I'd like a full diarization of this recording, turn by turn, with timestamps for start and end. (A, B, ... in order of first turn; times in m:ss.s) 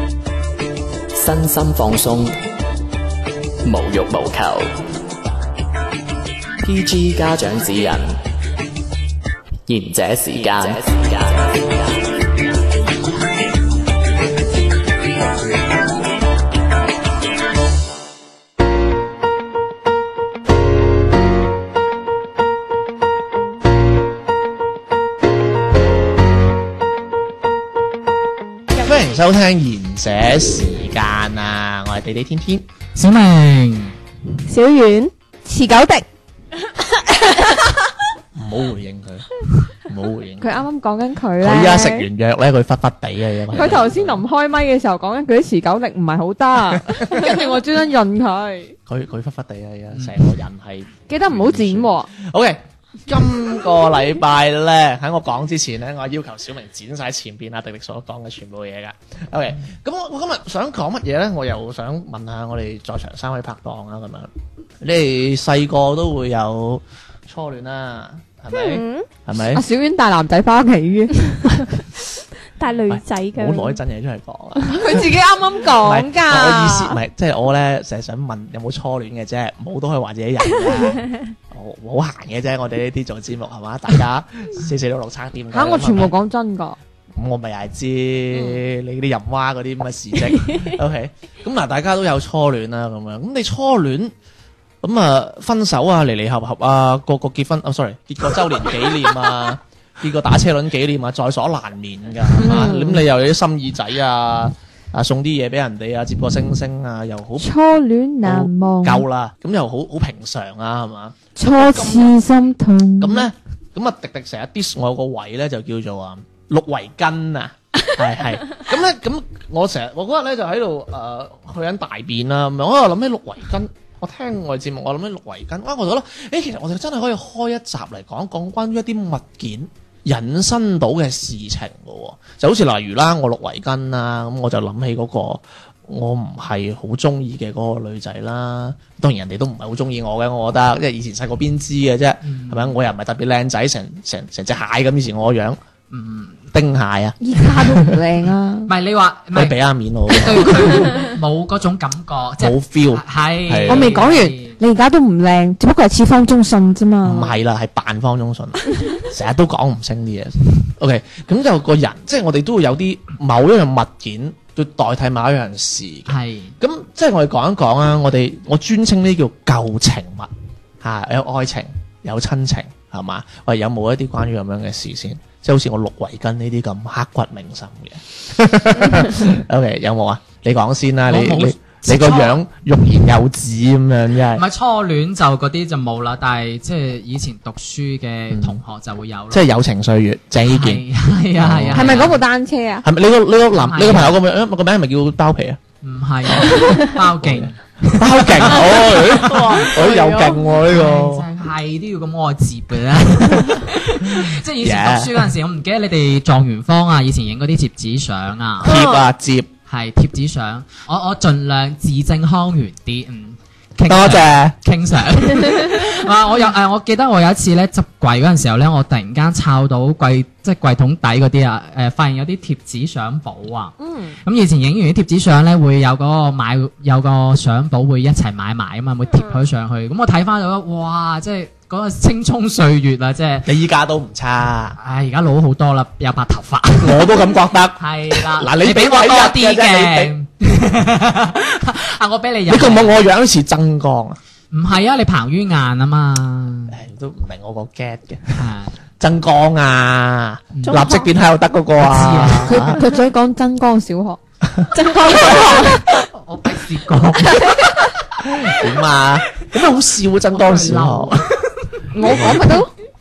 0:01.1-0:02.3 A
0:03.6-0:04.7 A
0:06.6-0:08.2 A
0:09.7-0:11.7 A
0:28.8-0:32.6 B
0:33.0-0:33.9 C
0:34.5-0:36.0 D
0:34.5-0:35.1 E
0:38.3-0:40.6 B
0:40.4-0:42.0 D
0:41.4-0:44.2 B
0:43.5-0:48.8 D
0:46.9-0:47.2 B
0:48.9-1:04.3 B
0:51.1-0:52.1 D
1:04.8-1:09.6 B
1:08.5-1:09.0 E
1:09.5-1:11.6 D
1:12.6-1:13.8 E
1:12.9-1:26.1 B
1:14.6-1:17.0 D
1:20.6-1:21.2 E
1:25.5-1:26.8 D
1:27.1-1:34.1 B
1:30.4-1:30.7 E
1:34.8-1:47.5 B
1:42.4-1:43.0 D
1:47.4-1:49.0 D
1:48.2-1:52.1 B
1:51.4-1:53.2 D
1:53.0-2:25.6 B
2:22.2-2:22.8 C
2:25.9-2:26.4 C
2:26.5-2:28.0 B
2:27.2-2:28.7 D
2:28.7-2:29.6 C
2:29.3-2:31.0 B
2:30.1-2:34.6 C
2:32.4-2:34.0 B
2:33.7-2:37.3 D
2:37.0-2:50.3 B
2:46.1-2:46.5 C
2:50.8-3:04.4 B
3:01.1-3:02.4 C
3:04.4-3:09.5 C
3:08.3-3:08.6 B
3:09.3-3:10.8 B
3:10.5-3:12.2 C
3:11.4-3:12.1 B
3:11.7-3:12.8 D
3:12.8-3:15.6 B
3:13.6-3:14.2 C
3:15.8-3:19.7 C
3:16.2-3:21.3 B
3:18.6-3:20.5 E
3:20.6-3:28.7 C
3:24.1-3:25.3 B
3:28.6-3:29.5 B
3:28.6-3:29.0 E
3:29.7-3:53.5 C
3:33.9-3:34.5 B
3:43.8-3:44.2 D
3:49.1-3:49.4 E
3:53.4-3:54.8 B
3:54.8-4:03.0 C
3:56.8-4:00.1 B
4:02.5-4:04.2 B
4:04.5-4:06.8 C
4:06.7-4:08.4 B
4:08.3-4:08.7 C
4:09.0-4:12.8 B
4:10.6-4:10.8 C
4:10.6-4:11.1 E
4:11.8-4:12.6 C
4:12.4-4:14.2 D
4:14.5-4:15.4 B
4:14.7-4:15.4 E
4:14.7-4:15.9 D
4:16.1-4:17.8 C
4:18.2-4:21.2 B
4:20.3-4:22.4 C
4:21.9-4:22.7 D
4:22.0-4:22.7 B